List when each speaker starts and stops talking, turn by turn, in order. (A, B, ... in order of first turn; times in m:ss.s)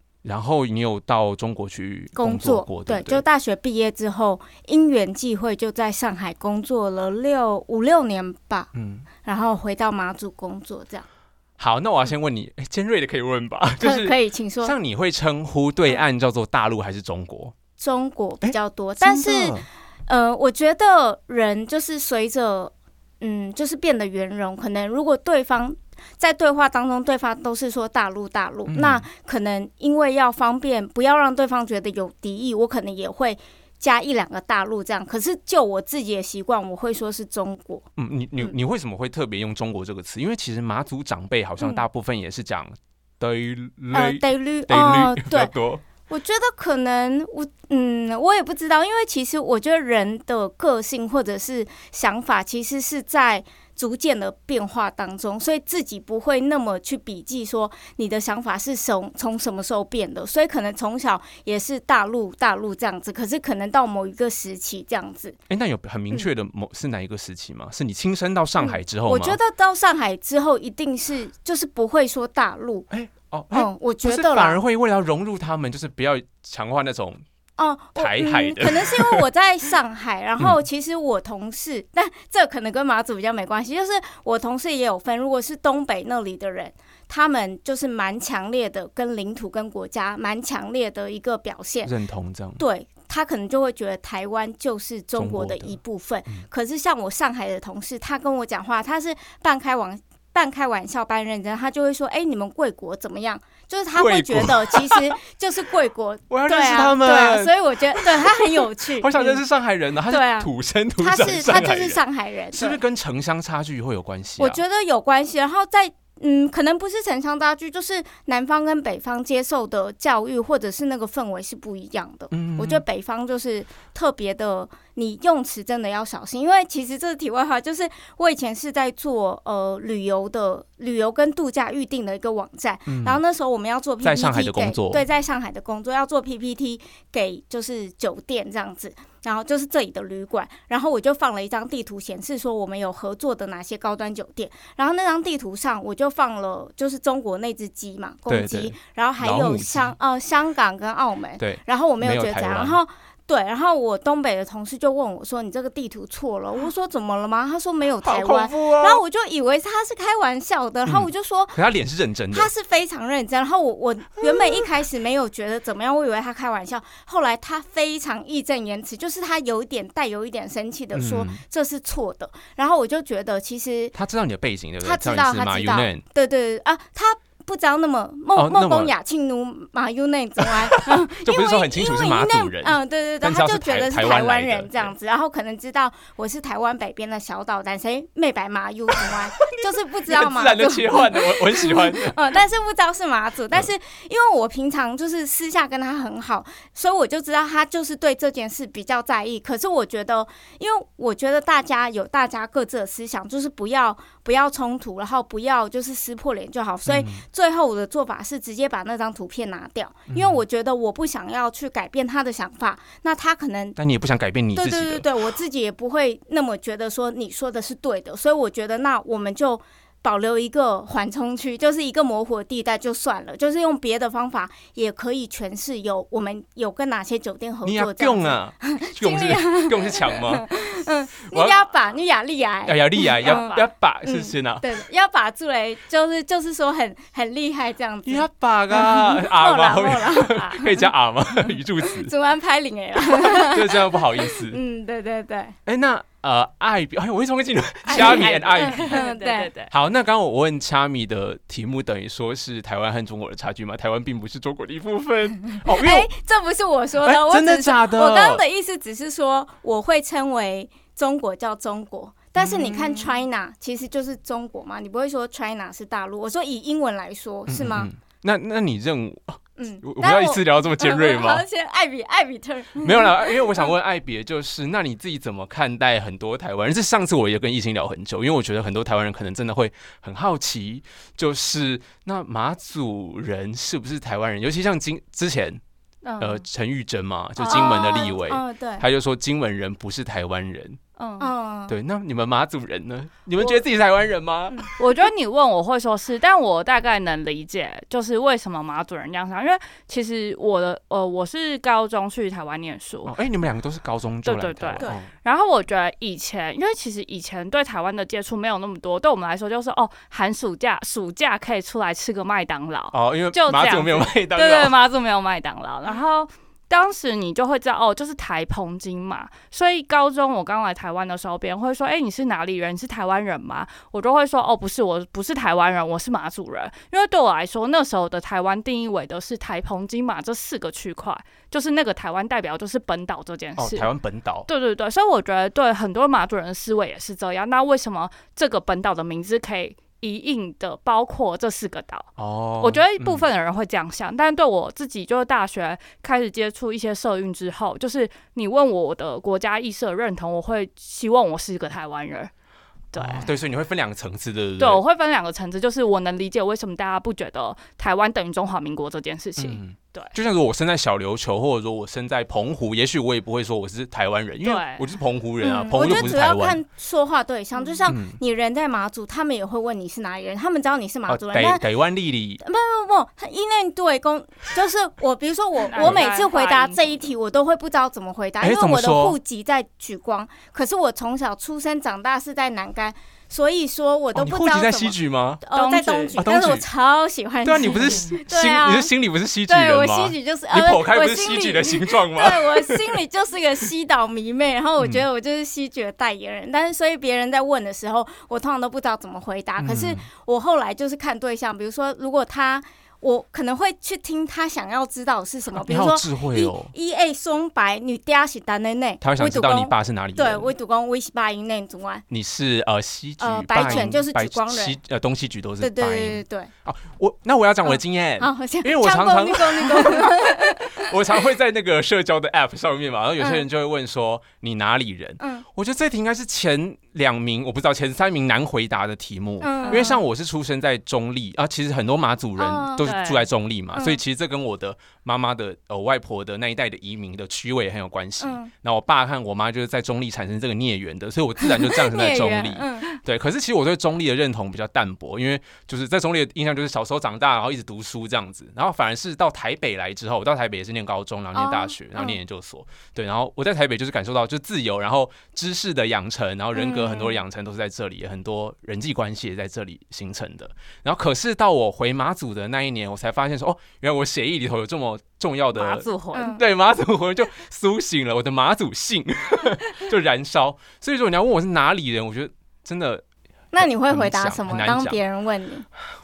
0:00.2-0:03.2 A
0:02.2-0:08.7 B
0:08.8-0:09.1 A
0:09.2-0:11.1 B
0:11.6-0:17.6 A
0:13.8-0:14.8 B
0:17.8-0:37.9 B
0:18.4-0:19.6 A
0:28.7-0:29.1 A
0:38.0-0:45.8 A
0:43.9-0:45.5 B
0:46.1-1:05.4 B
1:05.5-1:09.4 A
1:08.6-1:12.9 B
1:12.9-1:17.2 A
1:13.5-1:14.6 B
1:17.6-1:31.9 B
1:18.0-1:19.2 A
1:31.8-1:32.6 A
1:32.6-1:49.4 B
1:35.2-1:35.8 A
1:44.0-1:45.1 A
1:46.3-1:52.0 A
1:50.1-1:52.8 B
1:52.5-1:54.6 A
1:54.4-2:41.6 B
2:02.3-2:02.8 A
2:12.9-2:13.2 A
2:14.0-2:15.0 A
2:28.3-2:30.0 A
2:31.4-2:32.8 A
2:38.0-2:39.0 A
2:40.9-2:42.5 A
2:42.3-2:54.0 B
2:50.9-2:51.4 A
2:54.0-2:56.0 A
2:54.8-3:33.8 B
2:58.4-2:58.9 A
3:00.4-3:04.9 A
3:08.9-3:12.2 A
3:26.9-3:27.2 A
3:30.1-3:30.4 A
3:33.8-3:35.1 A
3:34.5-4:00.9 B
3:47.6-3:50.5 A
3:51.3-3:51.6 A
3:52.7-3:54.6 A
3:53.2-3:53.7 C
3:58.1-4:02.1 A
4:01.5-4:05.6 B
4:03.0-4:04.6 A
4:05.7-4:09.0 A
4:07.9-4:09.5 B
4:07.9-4:09.7 C
4:09.7-4:16.1 A
4:15.6-4:27.9 B
4:17.0-4:18.4 A
4:22.4-4:23.0 A
4:27.5-4:31.5 A
4:29.6-4:33.7 B
4:32.8-4:45.6 A
4:46.0-4:46.4 C
4:46.2-4:50.8 A
4:47.4-4:48.9 B
4:51.0-4:51.3 C
4:51.2-4:51.8 B
4:51.7-4:54.6 A
4:54.8-5:03.2 C
5:03.0-5:05.1 A
5:04.2-5:33.9 C
5:12.9-5:14.8 A
5:33.6-5:34.5 A
5:34.5-5:42.1 C
5:42.2-5:43.3 A
5:42.6-5:52.3 C
5:52.9-5:53.3 C
5:53.0-5:54.8 A
5:54.6-6:00.1 C
5:59.4-6:06.6 A
6:04.4-6:04.9 C
6:05.4-6:11.6 B
6:07.9-6:08.2 A
6:11.1-6:12.4 A
6:12.4-6:28.9 B
6:15.7-6:17.0 C
6:18.4-6:19.2 A
6:24.1-6:25.4 A
6:25.5-6:26.2 C
6:26.2-6:26.6 A
6:27.4-6:33.0 A
6:29.5-6:52.0 B
6:34.8-6:35.0 A
6:39.6-6:40.0 A
6:45.5-6:46.7 A
6:49.0-6:50.5 A
6:52.1-7:53.0 A
6:53.2-6:54.8 B
6:55.6-6:56.5 B
6:57.7-7:01.0 B
7:03.2-7:03.4 B
7:05.2-7:05.5 B
7:09.4-7:10.0 B
7:12.4-7:12.9 B
7:12.8-7:13.2 C
7:18.2-7:18.5 B
7:21.4-7:22.9 B
7:31.4-7:32.2 B
7:36.5-7:37.2 B
7:45.5-7:46.4 C
7:46.1-7:46.4 B
7:53.5-7:55.7 B
7:53.6-7:55.0 A